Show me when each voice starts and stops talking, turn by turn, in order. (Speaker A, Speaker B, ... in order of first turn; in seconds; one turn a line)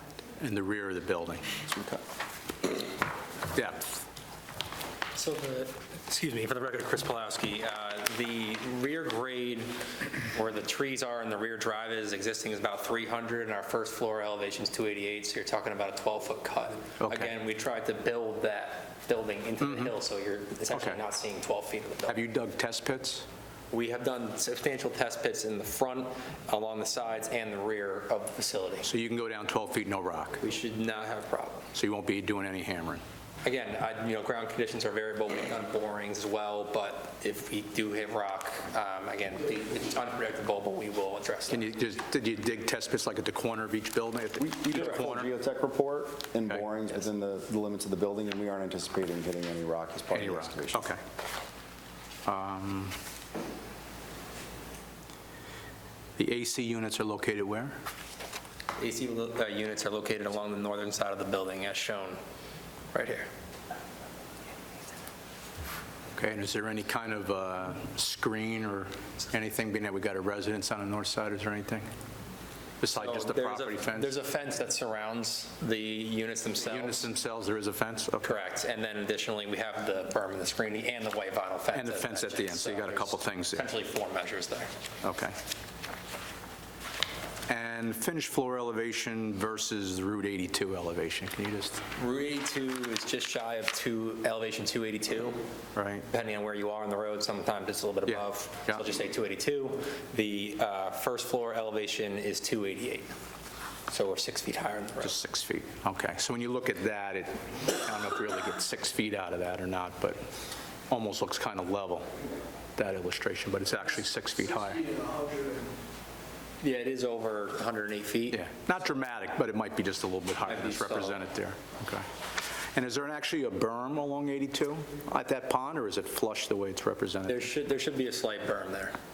Speaker A: 0.4-1.6
Speaker B: 1.7-1.9
Speaker A: 3.5-3.8
Speaker C: 5.1-9.8
Speaker C: 10.3-22.2
Speaker A: 17.0-17.3
Speaker A: 19.6-19.9
Speaker A: 20.7-21.0
Speaker A: 22.1-23.3
Speaker C: 23.7-28.9
Speaker A: 28.8-30.4
Speaker C: 30.4-31.7
Speaker A: 31.7-33.0
Speaker C: 33.4-41.7
Speaker A: 41.5-45.3
Speaker B: 44.4-50.9
Speaker C: 44.8-45.0
Speaker A: 50.1-51.0
Speaker A: 52.3-53.0
Speaker A: 56.2-57.8
Speaker C: 58.8-62.2
Speaker C: 62.9-63.3
Speaker A: 66.2-71.9
Speaker A: 72.8-74.1
Speaker C: 72.9-77.1
Speaker A: 76.6-78.4
Speaker C: 78.2-84.7
Speaker A: 81.7-83.6
Speaker A: 85.0-85.3
Speaker A: 87.5-91.8
Speaker C: 92.0-95.4
Speaker A: 95.8-96.1
Speaker C: 96.1-103.1
Speaker A: 98.1-98.8
Speaker C: 103.9-105.2
Speaker A: 105.0-110.2
Speaker A: 110.9-112.1
Speaker A: 112.8-115.0
Speaker C: 116.6-118.4
Speaker A: 118.3-122.1
Speaker C: 120.4-121.2
Speaker A: 122.8-127.5
Speaker C: 127.3-128.9